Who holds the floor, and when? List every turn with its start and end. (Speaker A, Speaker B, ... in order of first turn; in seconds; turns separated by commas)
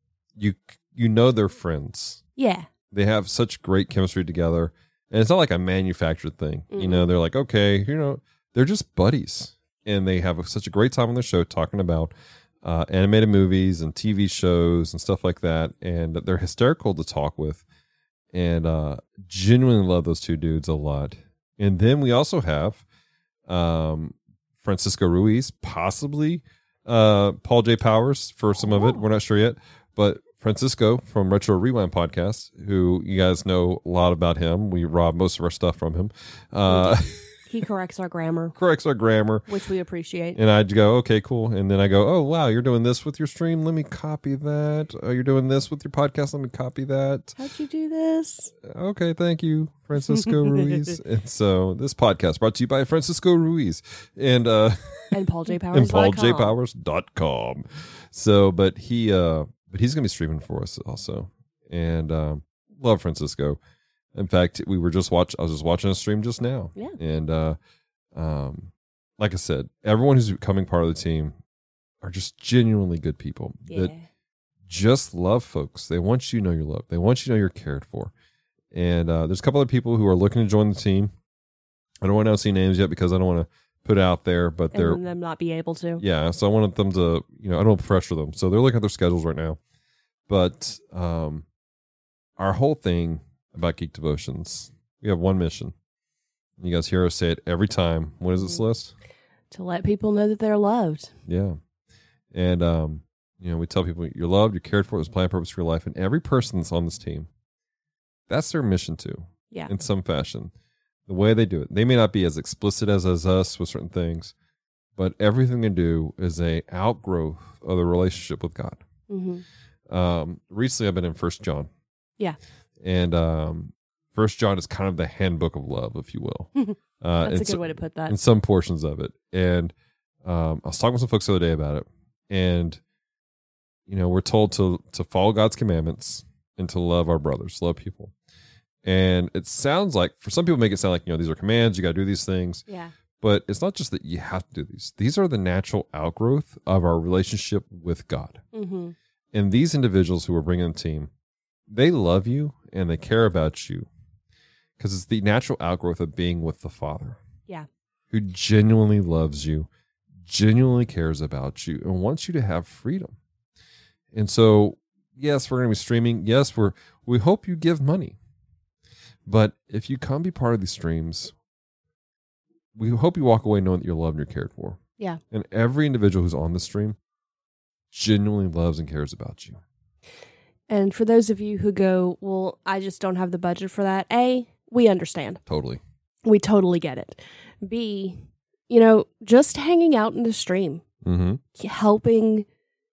Speaker A: 0.4-2.2, Speaker B: 2.4-2.7, Speaker A: 2.9-17.6, Speaker B: 6.7-7.1, Speaker A: 18.3-22.8, Speaker A: 23.5-37.5, Speaker B: 28.6-29.0, Speaker B: 36.7-38.6, Speaker A: 38.6-39.5, Speaker B: 39.5-40.4, Speaker A: 40.4-47.4, Speaker B: 47.4-48.5, Speaker A: 48.6-55.2, Speaker B: 50.1-50.6, Speaker B: 55.1-56.6, Speaker A: 55.7-63.6, Speaker A: 64.1-67.6, Speaker A: 68.2-71.4, Speaker A: 72.0-73.9, Speaker B: 73.7-74.1, Speaker A: 74.7-78.1, Speaker A: 78.7-81.1, Speaker A: 82.0-85.0, Speaker B: 84.7-86.0, Speaker A: 86.0-89.6, Speaker A: 90.3-91.5, Speaker A: 92.4-95.7, Speaker A: 96.6-98.9, Speaker B: 98.4-98.6, Speaker B: 99.5-101.2, Speaker A: 101.3-101.6, Speaker A: 102.3-107.3, Speaker A: 108.3-110.5, Speaker A: 111.1-114.3, Speaker A: 115.0-118.8, Speaker B: 119.1-119.4, Speaker A: 119.9-121.7, Speaker A: 122.8-129.7, Speaker B: 126.6-128.2, Speaker A: 130.2-132.8, Speaker A: 133.9-138.1, Speaker A: 138.8-142.6, Speaker B: 142.7-142.9, Speaker A: 143.2-148.4, Speaker B: 148.5-148.9, Speaker A: 149.3-151.1, Speaker A: 151.7-153.9, Speaker A: 154.8-157.2, Speaker A: 158.1-159.7, Speaker A: 160.2-163.2, Speaker A: 164.1-168.2, Speaker A: 169.3-171.3, Speaker A: 172.8-174.8, Speaker A: 175.3-177.0, Speaker A: 177.9-179.6, Speaker B: 180.7-185.4, Speaker A: 185.5-185.8, Speaker B: 186.2-190.8, Speaker A: 191.0-191.4, Speaker B: 191.6-192.5